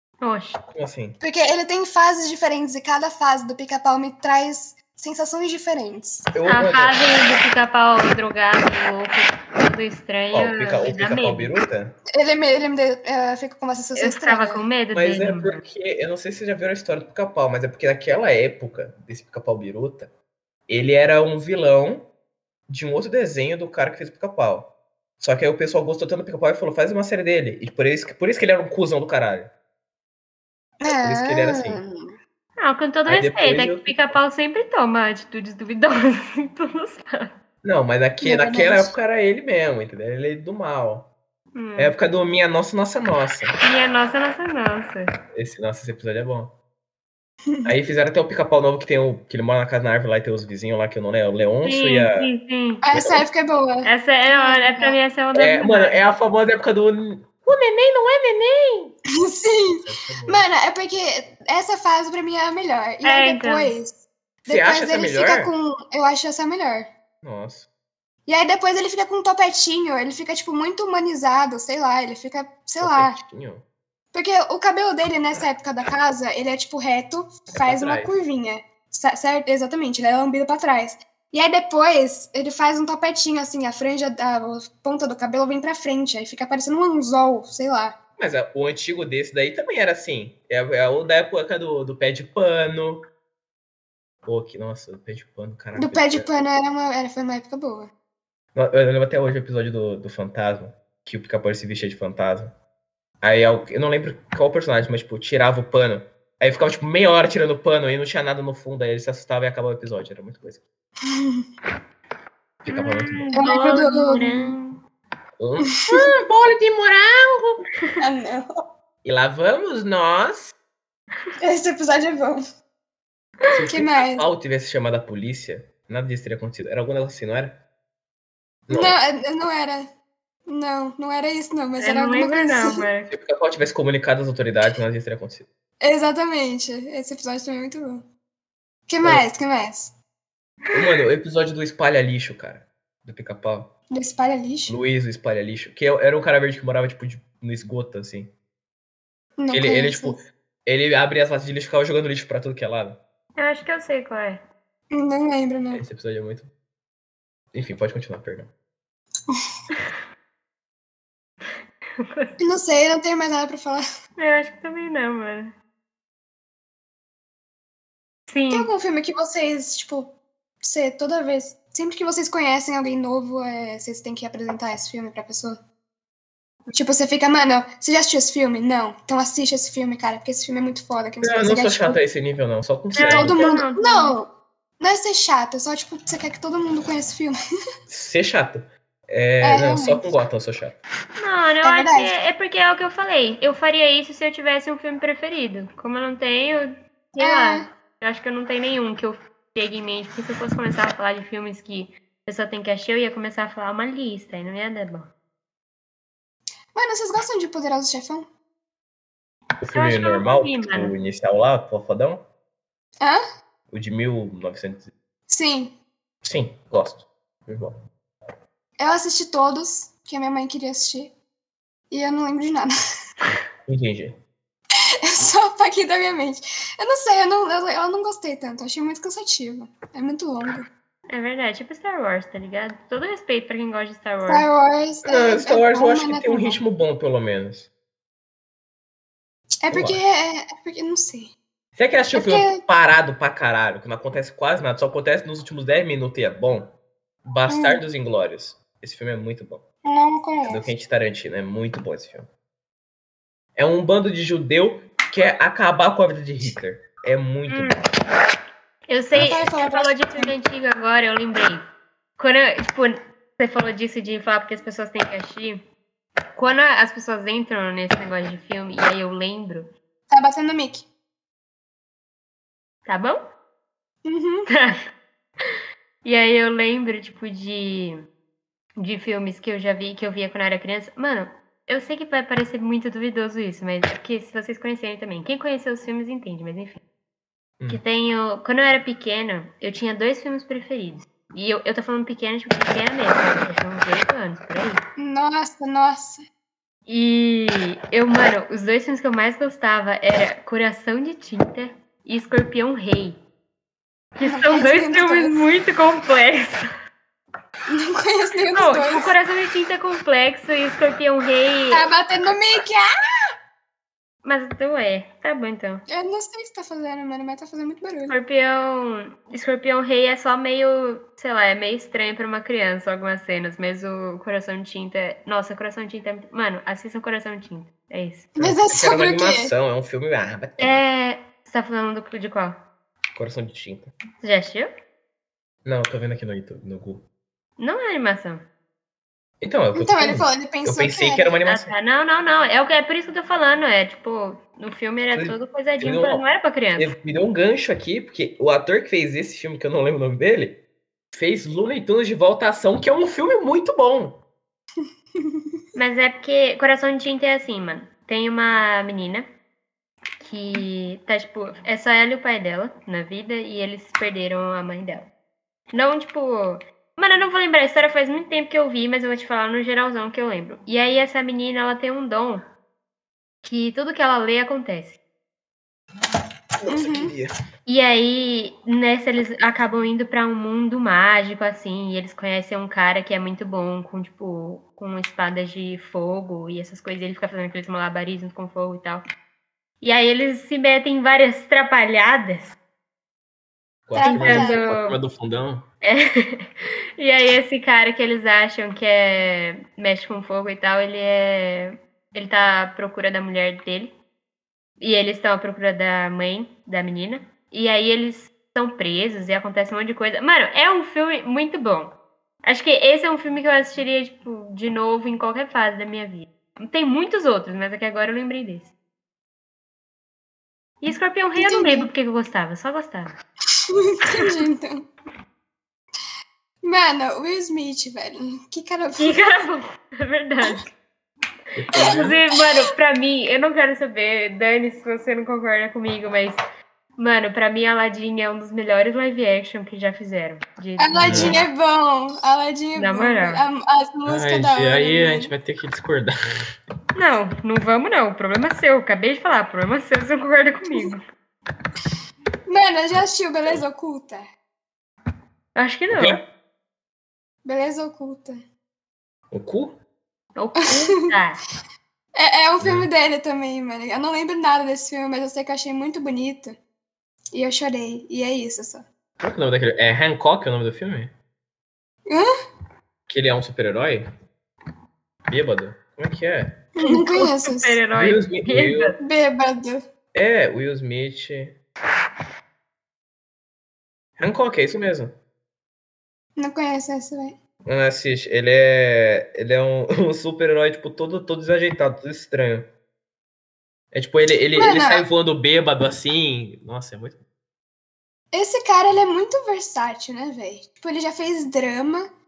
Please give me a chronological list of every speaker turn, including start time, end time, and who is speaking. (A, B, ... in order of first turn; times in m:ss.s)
0:00.2-0:00.6 A
0:00.7-0:01.2 B
0:01.2-0:06.3 C
0:06.3-0:07.0 B
0:06.5-0:11.5 A
0:10.3-0:11.9 B
0:12.1-0:14.6 C
0:14.0-0:15.6 A
0:14.9-0:20.1 B
0:20.7-0:22.0 B
0:22.7-0:24.7 B
0:25.2-0:29.5 B
0:30.8-0:32.1 C
0:30.9-0:31.8 B
0:32.6-0:37.3 A
0:33.0-0:34.2 B
0:37.6-0:41.1 B
0:38.2-0:38.9 C
0:41.5-0:41.9 A
0:41.8-0:43.5 B
0:43.6-0:45.0 A
0:45.3-0:46.5 B
0:47.5-0:47.7 C
0:47.6-0:52.3 B
0:51.6-0:52.8 A
0:52.8-0:55.0 C
0:52.9-0:53.2 B
0:53.8-0:56.0 A
0:55.3-0:58.9 B
0:59.2-1:06.9 C
0:59.8-1:00.4 B
1:03.0-1:03.7 A
1:04.5-1:05.5 B
1:07.2-1:07.6 B
1:08.2-1:13.2 C
1:12.8-1:13.6 B
1:14.1-1:28.0 C
1:17.5-1:18.1 B
1:28.2-1:33.0 B
1:34.2-1:36.3 B
1:35.8-1:37.9 C
1:38.5-1:42.5 B
1:43.2-1:50.6 B
1:51.0-1:51.4 C
1:52.6-1:53.2 B
1:52.7-1:54.8 A
1:53.4-1:54.5 C
1:55.4-1:57.6 B
1:58.0-1:58.5 C
1:59.0-2:00.5 B
2:01.4-2:02.4 C
2:03.5-2:07.6 B
2:03.7-2:04.2 C
2:08.7-2:09.0 B
2:08.7-2:09.9 C
2:10.5-2:12.8 C
2:11.8-2:13.1 A
2:13.1-2:15.4 B
2:15.8-2:18.0 C
2:18.9-2:19.9 C
2:20.7-2:23.7 B
2:23.9-2:24.8 C
2:24.7-2:28.3 B
2:29.4-2:30.2 C
2:29.5-2:33.0 B
2:33.4-2:34.4 A
2:34.9-2:35.8 C
2:35.7-2:36.5 B
2:37.5-2:38.5 B
2:42.0-2:42.4 A
2:42.4-2:43.8 C
2:44.2-2:45.5 A
2:48.3-2:48.7 A
2:48.5-2:55.6 C
2:56.7-3:02.0 C
3:01.2-3:03.4 B
3:03.0-3:04.1 A
3:03.0-3:07.4 C
3:07.9-3:10.8 B
3:09.4-3:10.1 C
3:11.2-3:25.1 A
3:11.6-3:12.1 C
3:17.2-3:17.7 C
3:26.7-3:28.3 C
3:29.6-3:32.2 B
3:29.7-3:30.9 A
3:33.7-3:34.9 B
3:35.3-3:35.7 C
3:36.2-3:37.7 B
3:38.8-3:41.1 C
3:41.9-3:42.7 C
3:43.6-3:44.1 B
3:45.1-3:50.7 C
3:51.1-3:54.4 A
3:54.3-3:56.6 C
3:55.0-3:57.7 B
3:59.6-4:01.3 C
3:59.7-4:00.0 B
4:01.8-4:06.7 B
4:02.1-4:02.6 C
4:07.2-4:09.6 B
4:07.5-4:07.8 C
4:09.8-4:10.7 C
4:10.5-4:12.3 B
4:13.6-4:17.8 B
4:17.5-4:17.8 A
4:18.9-4:21.6 A
4:19.1-4:20.3 C
4:19.2-4:19.5 B
4:22.2-4:25.6 A
4:26.4-4:29.7 A
4:30.1-4:30.9 C
4:32.8-4:33.2 A
4:34.0-4:34.5 C
4:34.5-4:34.8 A
4:36.0-4:38.0 A
4:38.8-4:46.8 A
4:47.7-4:54.8 A
4:55.0-4:56.2 C
4:56.9-5:03.2 A
5:04.2-5:06.6 A
5:04.2-5:05.4 C
5:07.7-5:09.0 C
5:08.5-5:11.8 A
5:11.7-5:12.9 C
5:14.2-5:15.8 A
5:15.9-5:18.1 C
5:18.1-5:28.3 A
5:28.4-5:29.5 C
5:28.4-5:30.8 B
5:30.6-5:32.6 A
5:33.1-5:33.9 B
5:34.2-5:34.7 A
5:35.6-5:37.0 B
5:37.6-5:38.4 A
5:39.4-5:41.7 B
5:39.8-5:41.3 C
5:41.5-5:46.9 A
5:45.1-5:46.2 B
5:46.8-5:50.6 B
5:51.1-5:54.2 B
5:54.8-5:55.6 C
5:55.7-5:59.3 A
6:00.2-6:05.1 A
6:05.7-6:12.4 A
6:13.4-6:15.0 A
6:16.6-6:17.3 B
6:16.7-6:17.1 C
6:17.6-6:29.0 A
6:29.8-6:32.5 A
6:33.9-6:35.6 B
6:34.0-6:34.6 C
6:34.0-6:35.0 A
6:35.8-6:43.9 A
6:44.8-6:51.9 A
6:52.4-6:58.7 A
7:00.8-7:03.2 A
7:01.4-7:01.9 C
7:03.9-7:04.9 C
7:06.6-7:09.2 C
7:09.0-7:10.7 A
7:11.6-7:12.1 B
7:11.8-7:16.4 A
7:17.0-7:21.4 A
7:20.8-7:25.3 C
7:21.0-7:21.4 B
7:22.8-7:23.4 A
7:24.0-7:26.1 B
7:26.9-7:31.0 A
7:32.5-7:34.2 C
7:35.5-7:36.2 A
7:35.9-7:36.2 B
7:37.4-7:38.4 C
7:39.3-7:39.8 B
7:40.4-7:41.4 A
7:40.8-7:41.1 C
7:42.2-7:46.6 C
7:42.6-7:42.9 B
7:47.3-7:48.8 C
7:49.2-7:51.1 B
7:53.1-7:54.0 B
7:55.3-7:56.5 B
7:56.8-7:57.8 C
7:56.8-7:58.9 A
7:58.0-7:58.9 B
7:59.0-7:59.8 C
8:00.1-8:01.6 B
8:04.2-8:05.1 B
8:06.4-8:07.4 C
8:07.6-8:12.7 B
8:13.9-8:17.2 B
8:14.6-8:15.0 C
8:18.3-8:22.1 C